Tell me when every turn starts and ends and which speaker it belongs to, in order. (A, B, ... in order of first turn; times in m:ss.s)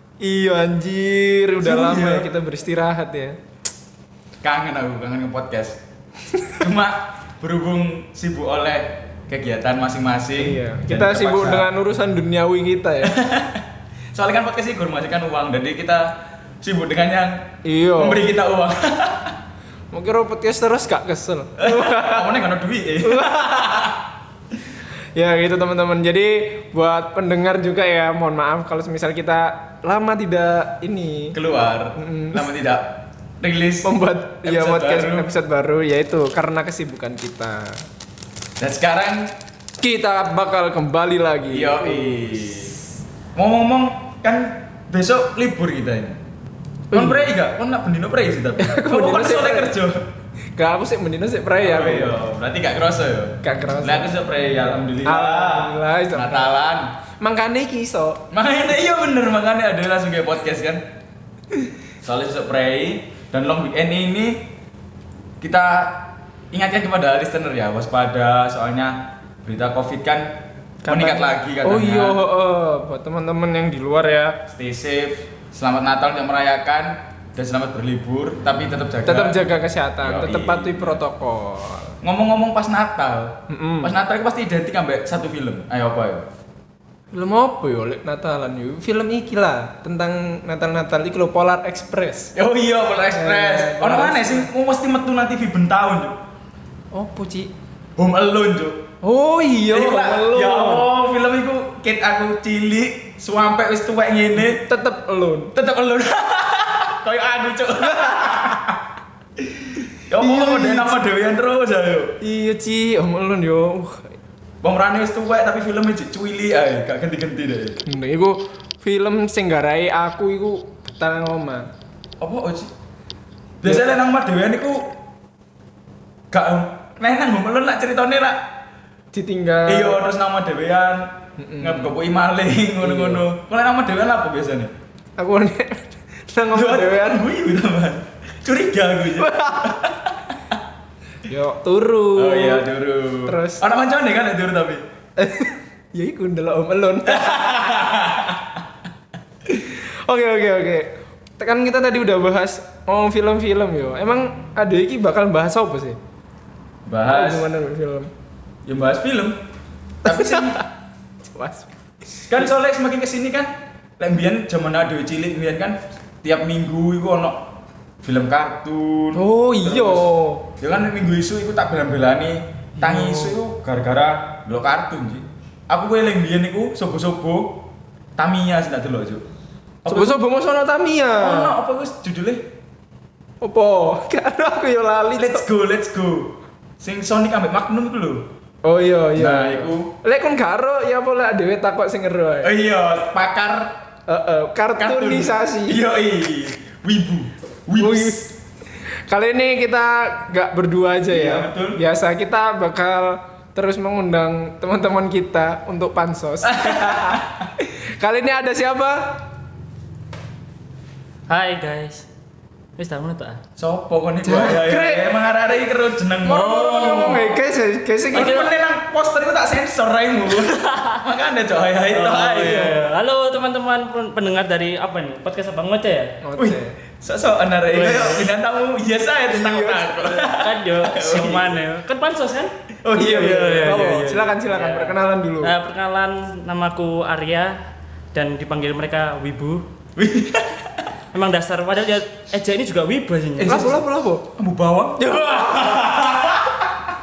0:00.2-0:03.4 A
0:01.6-0:02.3 B
0:04.4-0:05.8 B
0:06.6-0:11.7 B
0:10.4-0:13.1 A
0:13.0-0:13.6 B
0:14.1-0:17.4 B
0:17.6-0:18.2 A
0:18.0-0:19.3 B
0:19.9-0:22.3 A
0:21.6-0:24.0 B
0:23.0-0:23.9 A
0:25.2-0:31.4 A
0:31.3-0:33.9 B
0:32.0-0:32.4 A
0:33.8-0:37.8 A
0:34.4-0:35.3 B
0:38.6-0:39.3 B
0:39.8-0:42.3 A
0:41.5-0:42.7 B
0:43.3-0:46.2 B
0:46.9-0:47.3 A
0:46.9-0:50.0 B
0:48.6-0:49.8 A
0:50.6-0:52.1 A
0:51.6-0:56.9 B
0:53.4-0:54.1 A
0:55.0-0:56.5 A
0:57.2-0:58.2 A
0:58.3-1:00.8 B
1:02.0-1:04.4 B
1:05.4-1:10.3 B
1:10.8-1:14.4 A
1:10.8-1:12.2 B
1:14.5-1:19.4 B
1:19.0-1:21.9 A
1:20.0-1:21.0 B
1:22.0-1:26.2 B
1:23.5-1:23.9 A
1:27.1-1:32.3 A
1:32.3-1:36.2 B
1:33.1-1:34.5 A
1:36.9-1:37.5 A
1:38.0-1:38.8 B
1:39.0-1:40.9 A
1:39.7-1:44.6 B
1:44.4-1:45.5 A
1:45.5-1:48.7 B
1:47.8-1:48.5 A
1:49.6-1:52.1 B
1:50.2-1:51.0 A
1:52.2-1:54.1 A
1:54.6-1:57.8 B
1:57.8-2:01.7 A
2:02.2-2:02.7 B
2:03.6-2:04.9 B
2:03.6-2:03.9 A
2:06.3-2:08.4 B
2:09.1-2:10.0 A
2:09.6-2:14.7 B
2:11.4-2:11.9 A
2:12.8-2:13.2 A
2:15.2-2:17.2 A
2:16.5-2:20.2 B
2:19.2-2:19.7 A
2:21.3-2:22.6 A
2:22.2-2:24.8 B
2:23.2-2:23.6 A
2:25.2-2:27.7 A
2:27.0-2:28.6 B
2:29.5-2:36.0 A
2:36.8-2:37.5 B
2:37.0-2:38.1 A
2:38.6-2:39.4 B
2:40.0-2:40.6 B
2:40.0-2:40.6 A
2:41.3-2:42.4 A
2:42.3-2:47.4 B
2:48.0-2:50.0 B
2:49.1-2:50.4 A
2:50.6-2:57.6 B
2:52.8-2:53.4 A
2:58.2-2:59.2 B
2:59.8-3:00.2 B
2:59.8-3:01.6 A
3:01.2-3:02.4 B
3:03.4-3:05.4 A
3:05.2-3:08.2 B
3:08.6-3:12.5 A
3:09.2-3:09.9 B
3:12.4-3:13.7 B
3:14.1-3:15.8 A
3:14.8-3:18.2 B
3:17.8-3:18.3 A
3:19.1-3:29.2 A
3:21.1-3:21.8 B
3:26.4-3:27.4 B
3:31.3-3:32.0 C
3:32.8-3:33.4 C
3:33.6-3:37.3 B
3:34.2-3:35.2 A
3:36.2-3:38.4 A
3:36.3-3:37.4 C
3:38.1-3:38.5 C
3:38.1-3:42.8 B
3:40.4-3:41.0 C
3:41.9-3:46.2 C
3:42.4-3:42.7 A
3:46.2-3:46.7 A
3:46.4-3:51.6 B
3:47.7-3:48.3 C
3:47.8-3:48.3 A
3:49.3-3:50.0 A
3:50.0-3:52.5 C
3:52.8-3:54.3 B
3:53.0-3:55.5 A
3:53.1-3:57.6 C
3:58.1-3:59.6 C
4:00.0-4:00.8 B
4:01.1-4:03.7 C
4:03.4-4:03.8 B
4:03.4-4:04.2 A
4:04.4-4:06.7 B
4:05.0-4:05.9 A